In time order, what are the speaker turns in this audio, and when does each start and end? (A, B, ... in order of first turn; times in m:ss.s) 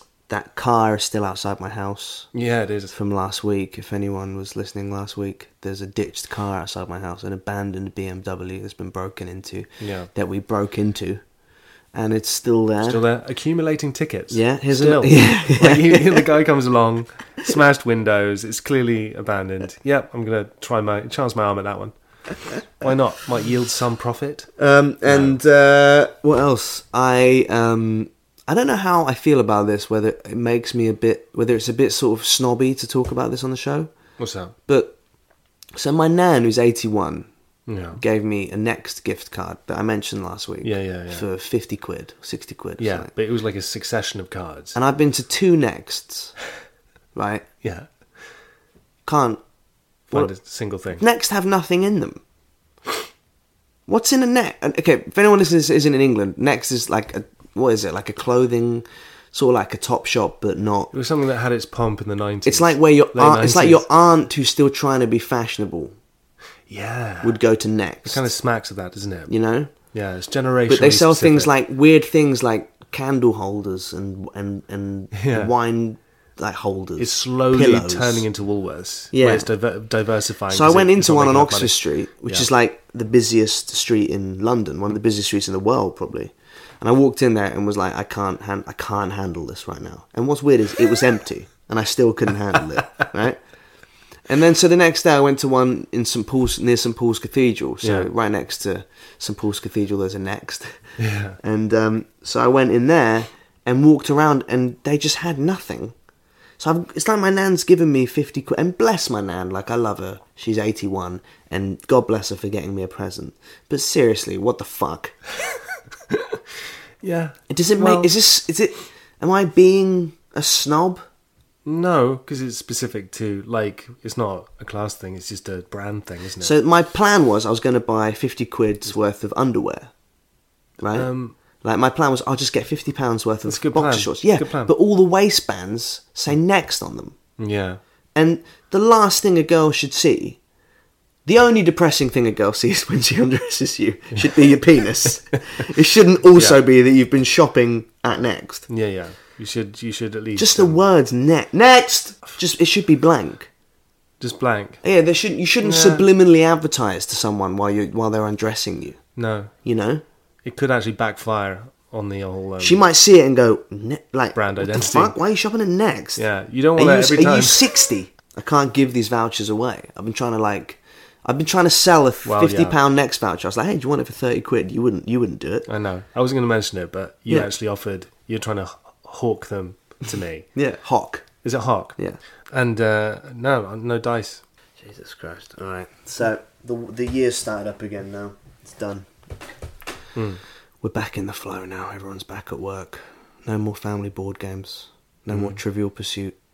0:00.3-0:02.3 A
0:02.3-0:03.0 B
0:02.9-0:11.2 A
0:09.8-0:10.1 B
0:11.9-0:13.0 A
0:12.8-0:21.9 B
0:14.3-0:16.3 A
0:22.6-0:24.5 B
0:24.6-0:33.9 A
0:25.1-0:25.4 B
0:34.2-0:34.5 B
0:34.7-0:34.9 A
0:35.8-0:37.3 A
0:37.7-0:38.0 B
0:38.0-0:43.1 A
0:40.6-0:41.2 B
0:42.8-0:44.8 B
0:44.7-0:46.3 A
0:47.1-0:47.4 A
0:49.0-0:49.4 A
0:50.1-0:51.0 B
0:50.9-0:52.2 A
0:53.9-1:00.9 A
1:00.9-1:03.8 B
1:02.4-1:05.9 A
1:06.7-1:07.4 B
1:07.2-1:08.3 A
1:08.0-1:11.5 B
1:09.3-1:09.7 A
1:10.7-1:18.2 A
1:15.1-1:15.5 B
1:17.0-1:22.5 B
1:19.1-1:19.5 A
1:20.5-1:33.4 A
1:34.2-1:45.9 A
1:37.8-1:38.1 B
1:41.0-1:41.4 B
1:46.6-1:55.2 A
1:57.0-1:58.1 B
1:57.5-2:01.0 A
2:01.6-2:06.5 B
2:06.4-2:09.9 A
2:10.8-2:11.1 A
2:10.9-2:11.3 B
2:11.6-2:17.2 A
2:13.4-2:14.7 B
2:17.4-2:17.8 B
2:18.1-2:20.4 A
2:21.2-2:28.7 A
2:28.7-2:30.8 B
2:30.4-2:33.5 A
2:34.2-2:34.8 B
2:34.8-2:39.0 A
2:35.6-2:36.0 B
2:39.2-2:39.5 B
2:39.6-2:40.0 A
2:40.4-2:42.8 B
2:42.6-2:46.2 A
2:44.3-2:45.1 B
2:46.2-2:47.7 B
2:46.8-2:55.7 A
2:52.2-2:52.8 B
2:55.7-3:00.5 B
3:00.5-3:01.3 A
3:01.4-3:02.0 B
3:02.5-3:04.4 B
3:04.8-3:09.1 A
3:10.2-3:10.4 B
3:10.8-3:16.3 A
3:15.3-3:15.6 B